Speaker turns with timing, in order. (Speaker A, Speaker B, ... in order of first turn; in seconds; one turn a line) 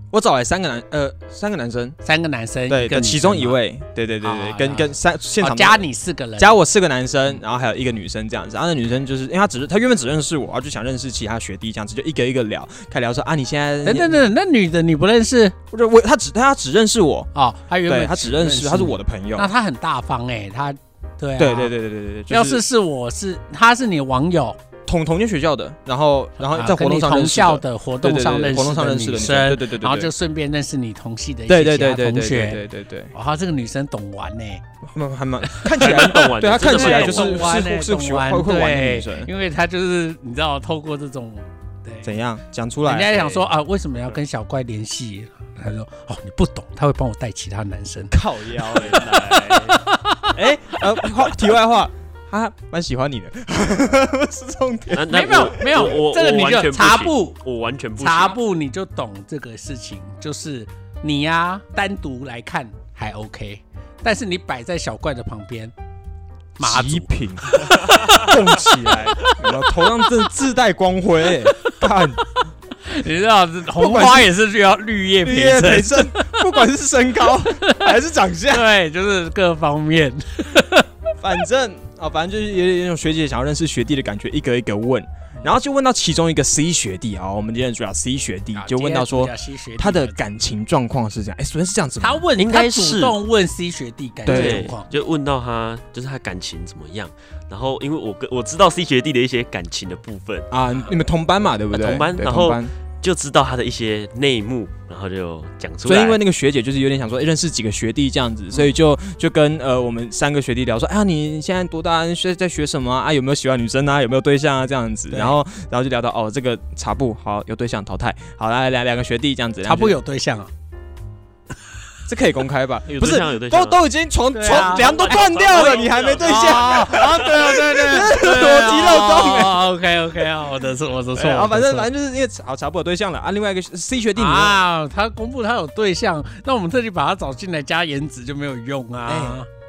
Speaker A: 0.1-2.0
Speaker B: 2.0-3.6
Speaker A: 2.7-5.8
Speaker B: 4.2-6.6
Speaker A: 6.4-14.2
Speaker B: 13.8-15.6
Speaker A: 15.7-17.3
Speaker B: 17.3-21.8
Speaker A: 17.9-19.5
Speaker A: 21.4-22.6
Speaker B: 22.3-24.6
Speaker A: 24.9-30.1
Speaker B: 26.4-34.6
Speaker A: 31.5-33.1
Speaker A: 34.8-39.3
Speaker B: 35.5-42.2
Speaker C: 35.7-37.5
Speaker A: 42.0-43.4
Speaker B: 42.9-50.4
Speaker A: 48.1-49.8
Speaker C: 48.8-49.7
Speaker A: 50.3-55.1
Speaker C: 54.9-58.4
Speaker B: 55.1-57.4
Speaker B: 58.0-65.7
Speaker B: 66.6-69.6
Speaker A: 66.6-72.4
Speaker B: 72.8-76.4
Speaker A: 73.8-74.3
Speaker A: 75.2-78.7
Speaker B: 77.5-77.9
Speaker B: 78.5-80.9
Speaker A: 81.2-92.2
Speaker B: 88.5-90.2
Speaker B: 92.0-94.9
Speaker C: 92.4-93.2
Speaker A: 94.2-94.7
Speaker C: 94.3-100.5
Speaker A: 100.5-102.7
Speaker C: 101.7-106.2
Speaker A: 105.8-120.0
Speaker B: 119.7-120.5
Speaker A: 122.1-129.7
Speaker C: 122.9-123.8
Speaker B: 124.3-131.9
Speaker C: 124.4-127.2
Speaker A: 131.2-134.6
Speaker B: 134.2-139.5
Speaker A: 139.1-139.4